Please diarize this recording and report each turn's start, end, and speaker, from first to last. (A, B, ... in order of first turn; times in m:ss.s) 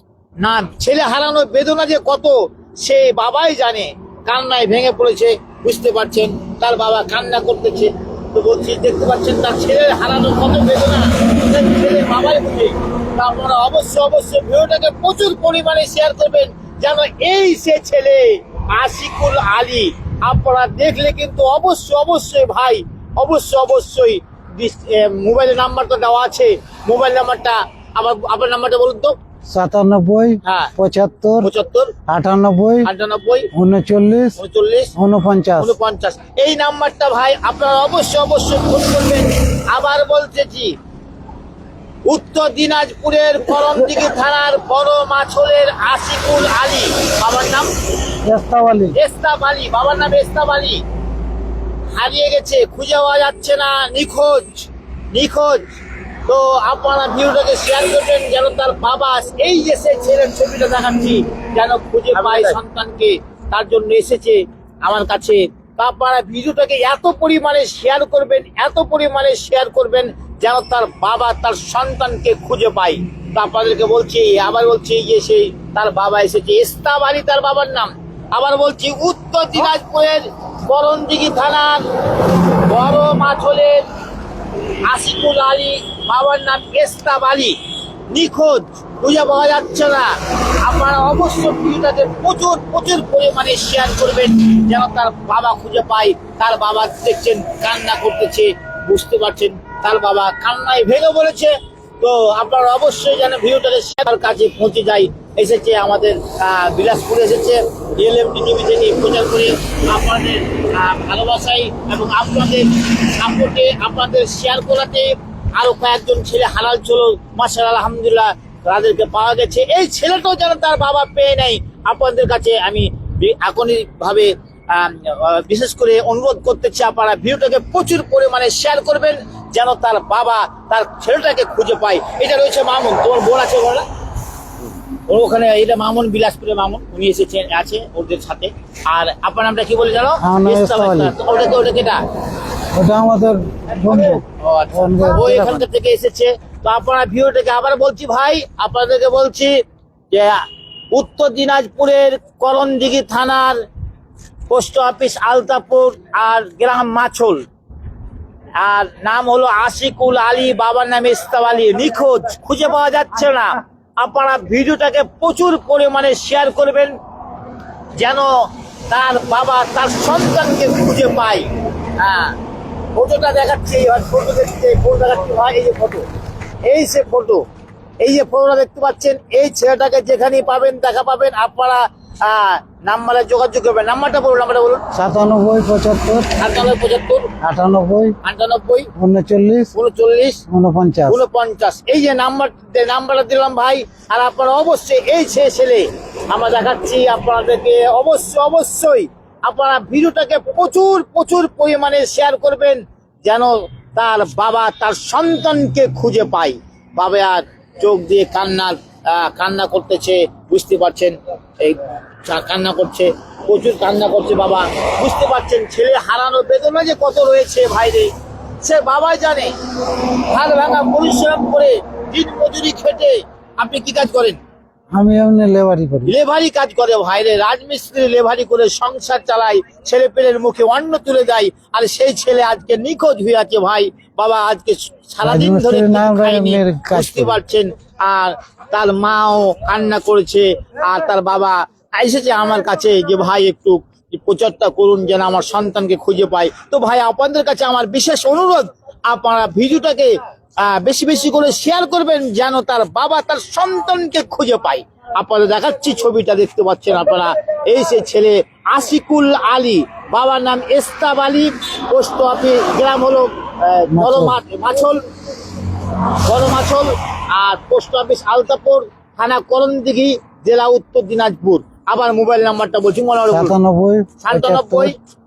0:00.4-0:29.2 A
0:29.5-0:31.5 B
0:30.4-0:30.7 A
0:31.4-0:31.9 A
0:32.1-0:32.9 B
0:32.8-0:33.5 A
0:33.5-0:34.4 B
0:34.4-0:34.9 A
0:35.0-0:35.7 B
0:35.6-0:40.8 A
0:42.1-0:47.7 A
0:48.2-0:49.0 B
0:48.9-0:50.8 A
0:52.0-0:55.7 A
0:56.3-1:21.9 A
1:22.6-1:23.8 A
1:24.9-1:27.6 A
1:28.1-2:13.9 A
2:15.1-2:22.0 A
2:20.2-2:21.2 B
2:22.7-2:25.7 B
2:23.8-2:33.6 A
2:34.5-2:37.5 A
2:38.6-2:47.0 A
2:48.0-2:52.4 A
2:53.0-2:56.0 A
2:56.6-2:57.4 A
2:58.0-3:04.8 A
3:04.9-3:06.3 B
3:06.4-3:07.3 A
3:07.4-3:08.2 B
3:08.2-3:08.9 A
3:09.0-3:09.7 B
3:09.8-3:10.4 A
3:10.5-3:11.2 B
3:11.1-3:39.5 A
3:40.1-3:44.4 A
3:44.9-3:46.1 B
3:46.1-4:25.0 A
3:55.2-3:57.4 B
4:23.9-4:24.4 B
4:26.2-4:33.6 A
4:33.3-4:34.9 B
4:34.2-4:35.0 A